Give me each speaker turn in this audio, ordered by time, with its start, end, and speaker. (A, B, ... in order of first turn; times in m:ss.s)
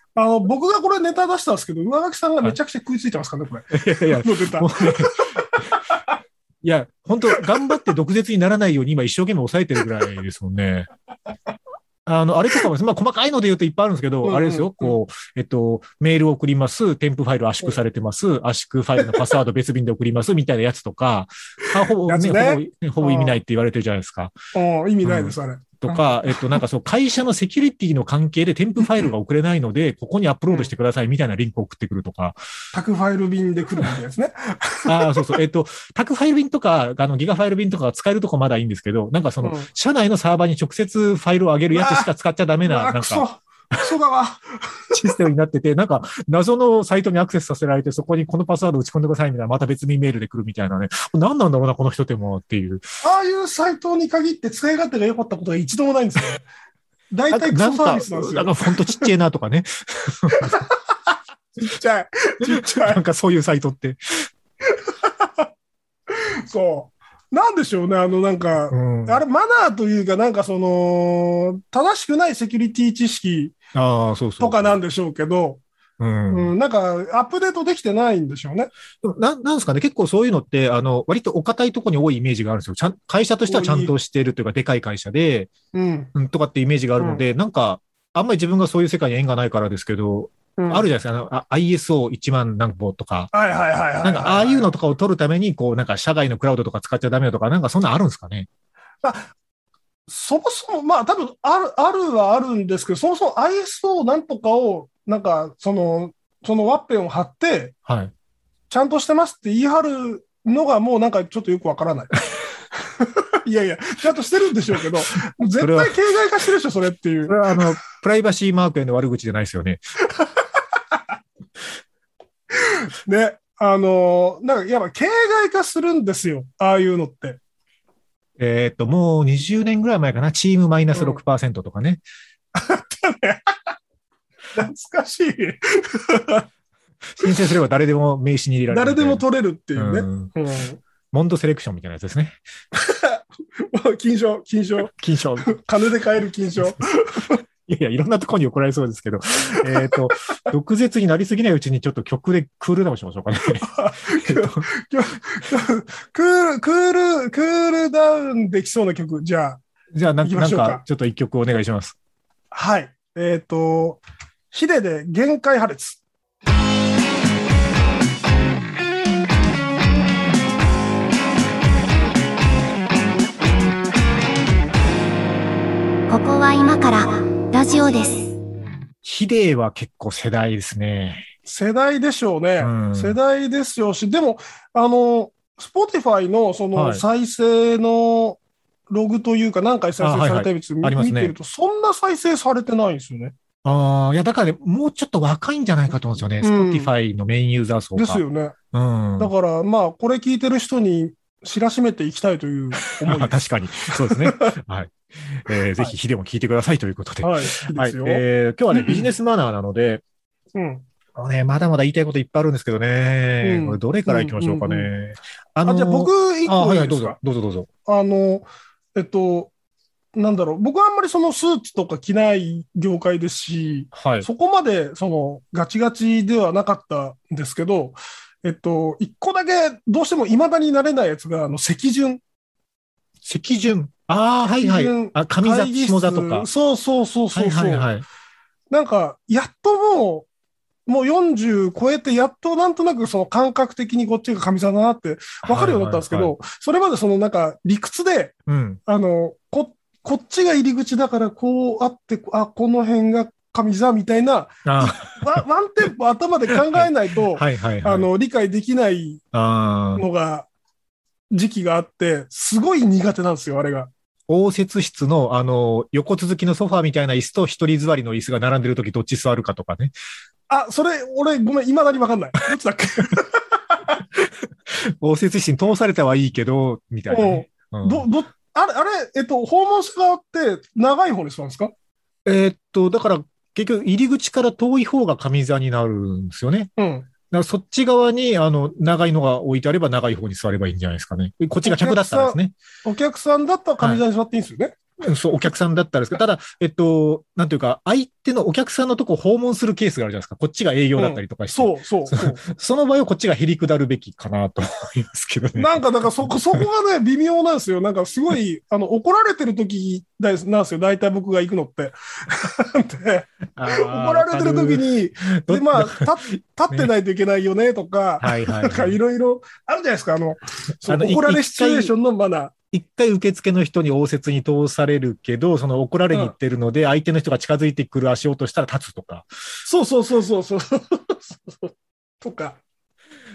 0:00.2-0:06.0 A
0:03.7-0:05.7 B
0:06.6-0:10.9 B
0:12.0-0:24.3 B
0:14.2-0:15.0 A
0:22.0-0:23.4 A
0:24.5-0:26.6 A
0:25.0-0:32.4 B
0:32.7-0:35.4 A
0:34.8-0:43.2 B
0:39.4-0:39.7 A
0:41.7-0:42.1 A
0:42.6-0:45.1 A
0:44.9-0:52.8 B
0:53.0-0:56.4 A
0:57.1-0:59.1 A
0:57.3-1:00.6 B
1:00.3-1:00.7 A
1:01.5-1:03.0 A
1:02.4-1:04.3 B
1:04.7-1:05.5 A
1:06.1-1:13.5 A
1:08.7-1:09.2 B
1:13.7-1:14.8 B
1:14.4-1:15.6 A
1:16.0-1:16.5 B
1:16.3-1:18.7 A
1:19.0-1:25.5 B
1:23.5-1:23.9 A
1:25.7-1:26.1 A
1:26.1-1:33.3 B
1:27.0-1:27.2 A
1:30.6-1:30.9 A
1:33.3-1:34.7 A
1:34.0-1:38.5 B
1:39.0-1:39.3 A
1:40.1-1:47.7 A
1:47.8-1:48.1 B
1:48.7-1:52.2 A
1:52.8-1:57.6 A
1:55.6-1:55.9 B
1:57.3-1:59.8 B
2:00.2-2:00.4 A
2:02.5-2:07.4 A
2:08.4-2:12.0 B
2:10.9-2:11.2 A
2:12.5-2:13.6 A
2:14.5-2:16.4 A
2:17.1-2:19.2 B
2:18.7-2:20.8 A
2:19.8-2:20.3 B
2:21.1-2:22.4 B
2:22.7-2:24.9 A
2:24.8-2:25.6 B
2:25.4-2:27.4 A
2:27.6-2:34.6 B
2:33.6-2:39.6 A
2:39.9-2:42.0 B
2:40.2-2:40.8 A
2:42.5-2:44.0 A
2:44.5-2:46.0 A
2:56.1-2:58.3 C
2:59.0-3:01.3 B
3:01.4-3:13.3 A
3:02.6-3:03.2 B
3:06.7-3:07.0 B
3:10.0-3:11.3 B
3:13.6-3:19.3 B
3:16.4-3:16.9 A
3:18.0-3:18.6 A
3:19.2-3:24.5 A
3:23.0-3:30.0 B
3:27.2-3:29.1 A
3:30.5-3:30.8 A
3:31.1-3:37.7 B
3:33.4-3:34.9 A
3:35.6-3:37.2 A
3:37.8-3:39.5 A
3:40.1-3:52.2 A
3:43.9-3:44.3 B
3:53.2-3:56.5 B
3:54.6-3:57.9 A
3:57.3-3:58.0 B
3:58.7-4:00.3 A
4:00.9-4:08.3 A
4:05.4-4:06.3 B
4:08.5-4:08.8 B
4:08.9-4:19.2 A
4:14.6-4:15.3 B
4:16.5-4:18.1 B
4:19.3-4:20.0 B
4:20.0-4:20.5 A
4:21.3-4:23.9 A
4:24.3-4:29.9 B
4:30.5-4:34.0 A
4:34.2-4:38.0 B
4:37.1-4:41.7 A
4:42.2-4:46.7 B
4:46.8-4:47.1 A
4:47.3-4:52.5 B
4:51.6-4:54.8 A
4:55.0-5:06.6 B
5:01.0-5:02.4 A
5:05.5-5:22.5 A
5:13.6-5:14.9 B
5:15.4-5:16.1 B
5:18.2-5:19.0 B
5:20.8-5:21.9 B
5:22.7-5:29.3 B
5:29.6-5:32.6 A